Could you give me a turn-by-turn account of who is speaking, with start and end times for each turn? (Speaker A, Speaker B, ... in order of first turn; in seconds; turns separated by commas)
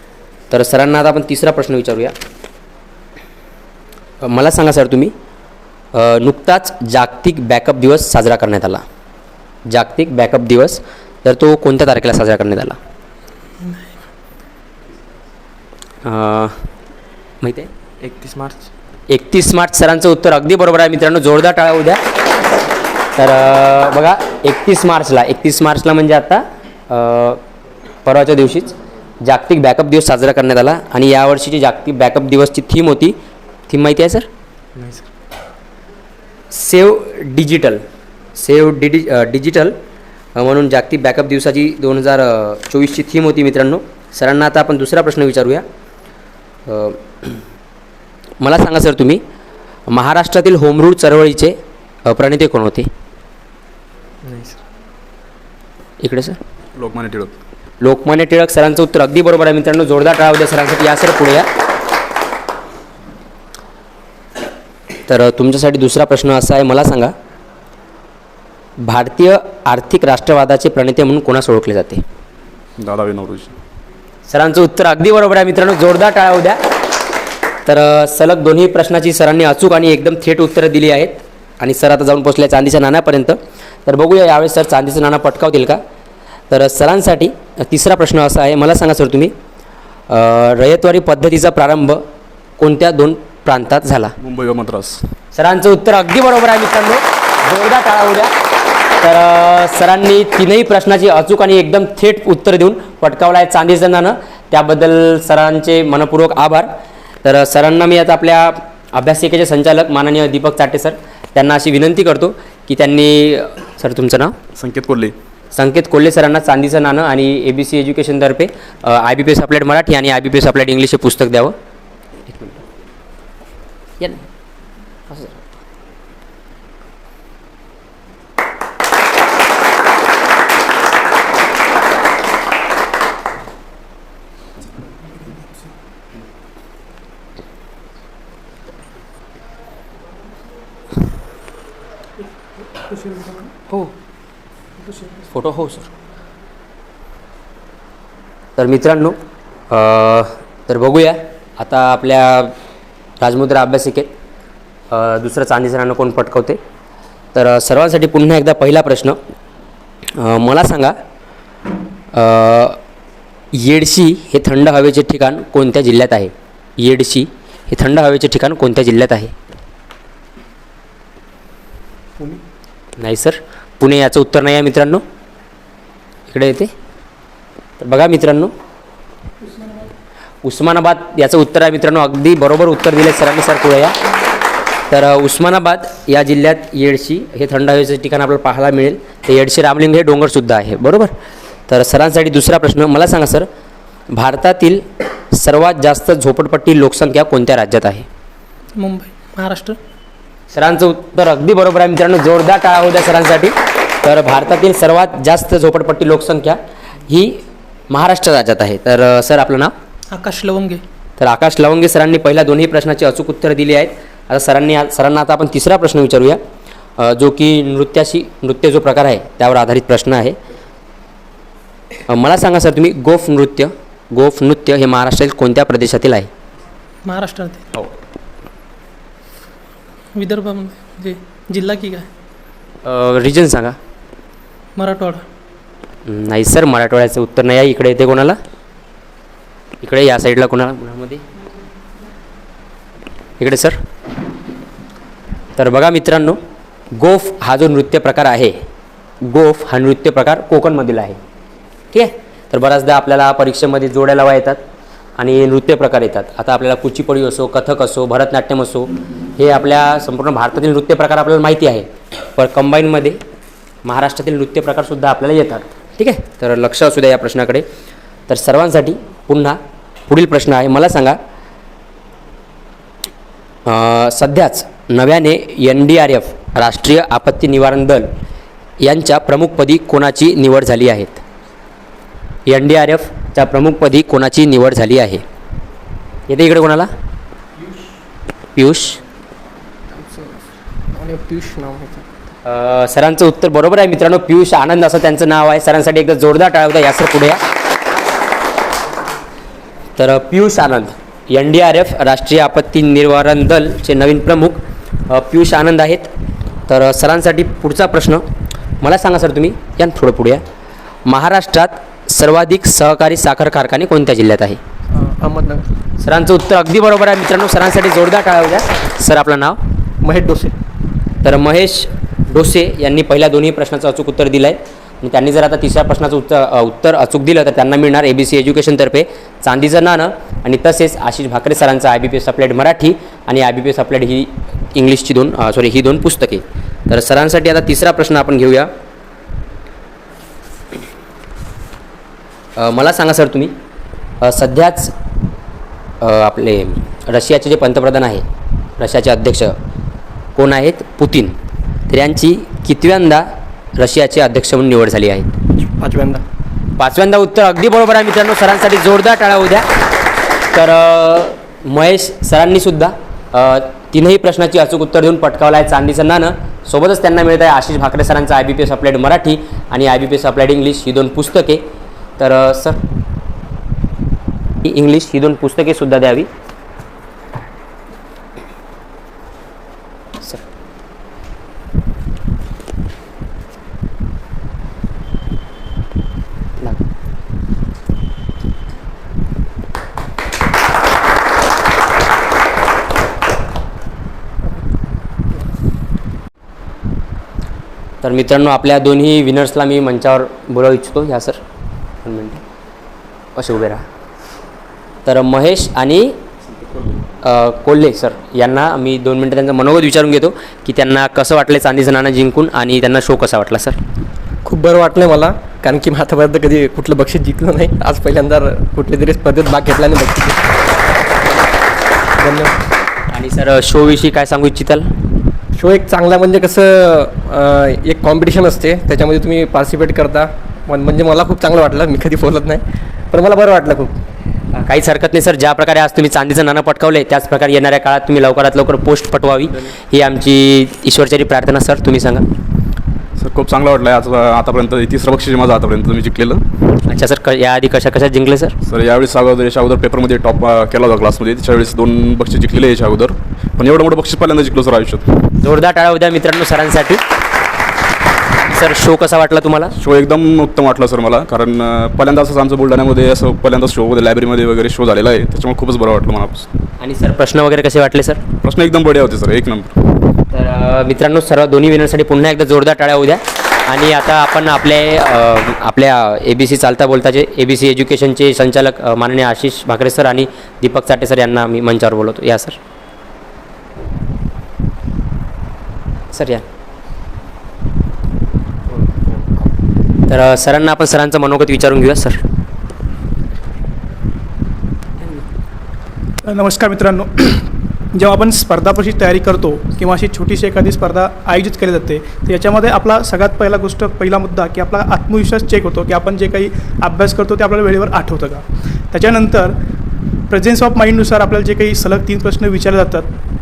Speaker A: 0.5-2.1, Speaker A: 4.2-5.1, Speaker A: 5.9-8.8, Speaker A: 9.7-12.8, Speaker A: 16.1-16.5, Speaker A: 17.4-17.7, Speaker A: 19.1-22.0, Speaker A: 23.1-27.4, Speaker A: 28.1-28.7, Speaker A: 29.2-33.1, Speaker A: 33.7-34.3, Speaker B: 34.8-35.0, Speaker A: 36.5-37.8, Speaker A: 38.4-39.8, Speaker A: 40.4-45.6, Speaker A: 46.7-47.4, Speaker A: 48.4-49.2, Speaker A: 49.9-51.5, Speaker A: 52.1-52.9, Speaker B: 54.2-54.6, Speaker A: 56.0-56.4, Speaker C: 56.8-57.3, Speaker A: 57.8-61.5, Speaker A: 65.1-67.1, Speaker A: 68.8-72.0, Speaker C: 72.8-73.5, Speaker A: 74.3-76.6, Speaker A: 77.7-85.8, Speaker A: 86.5-89.3, Speaker A: 90.1-92.0, Speaker A: 92.6-94.1, Speaker C: 94.2-95.0, Speaker A: 95.3-98.3, Speaker A: 99.0-106.7, Speaker A: 107.2-114.3, Speaker C: 114.6-115.1, Speaker A: 115.5-121.5, Speaker A: 122.3-122.6, Speaker A: 124.0-124.2, Speaker A: 125.1-125.4, Speaker D: 143.0-143.4, Speaker A: 145.3-145.9, Speaker A: 148.6-149.2, Speaker A: 149.7-152.5, Speaker A: 153.2-154.1, Speaker A: 154.9-156.6, Speaker A: 157.3-159.2, Speaker A: 160.2-160.9, Speaker A: 162.1-162.8, Speaker A: 163.5-169.3, Speaker A: 173.0-175.0, Speaker A: 176.3-176.7, Speaker A: 177.8-178.5, Speaker A: 180.4-183.9, Speaker A: 184.9-191.1, Speaker A: 191.7-193.5, Speaker A: 194.1-198.1, Speaker E: 198.8-199.8, Speaker A: 200.5-209.7, Speaker E: 210.1-210.8, Speaker A: 211.2-216.4, Speaker A: 217.0-220.3, Speaker A: 222.1-226.3, Speaker E: 227.1-227.7, Speaker E: 230.2-232.1, Speaker A: 232.8-233.8, Speaker E: 234.8-235.2, Speaker A: 236.1-238.4, Speaker A: 239.8-241.2, Speaker A: 243.4-243.8, Speaker A: 245.6-246.4, Speaker A: 247.0-248.6, Speaker A: 249.2-251.2, Speaker A: 251.9-254.6, Speaker A: 255.2-263.2, Speaker A: 263.8-267.6, Speaker A: 268.3-269.6, Speaker A: 270.1-271.2, Speaker A: 273.7-278.1, Speaker A: 278.8-281.2, Speaker A: 282.5-285.2, Speaker A: 286.3-286.9, Speaker A: 288.6-289.0, Speaker B: 289.9-292.1, Speaker A: 292.4-297.4, Speaker A: 300.0-306.1, Speaker A: 306.7-308.2, Speaker A: 308.8-310.4, Speaker A: 311.1-314.6, Speaker B: 314.9-315.7, Speaker A: 316.0-319.6, Speaker B: 320.0-320.5, Speaker A: 321.2-338.7, Speaker A: 342.6-343.5, Speaker A: 344.2-344.9, Speaker A: 346.0-348.2, Speaker A: 348.8-349.6, Speaker A: 350.3-351.4, Speaker A: 351.9-355.3, Speaker B: 355.8-356.2, Speaker A: 356.8-359.7, Speaker A: 360.5-371.6, Speaker A: 372.2-372.8, Speaker A: 374.6-376.3, Speaker A: 398.0-401.4, Speaker A: 402.0-402.4, Speaker A: 403.4-403.8, Speaker A: 405.1-406.2, Speaker A: 407.2-413.8, Speaker B: 414.4-420.5, Speaker B: 422.2-422.6, Speaker A: 423.1-424.9, Speaker B: 425.5-433.9, Speaker A: 434.5-442.3, Speaker C: 443.2-446.4, Speaker A: 446.9-448.6, Speaker C: 448.6-455.1, Speaker A: 455.4-457.0, Speaker A: 458.4-459.7, Speaker C: 459.8-466.5, Speaker A: 466.8-468.2, Speaker C: 468.4-469.8, Speaker A: 470.3-482.6, Speaker A: 486.1-486.4, Speaker A: 490.1-492.2, Speaker D: 496.2-509.6, Speaker D: 510.3-513.1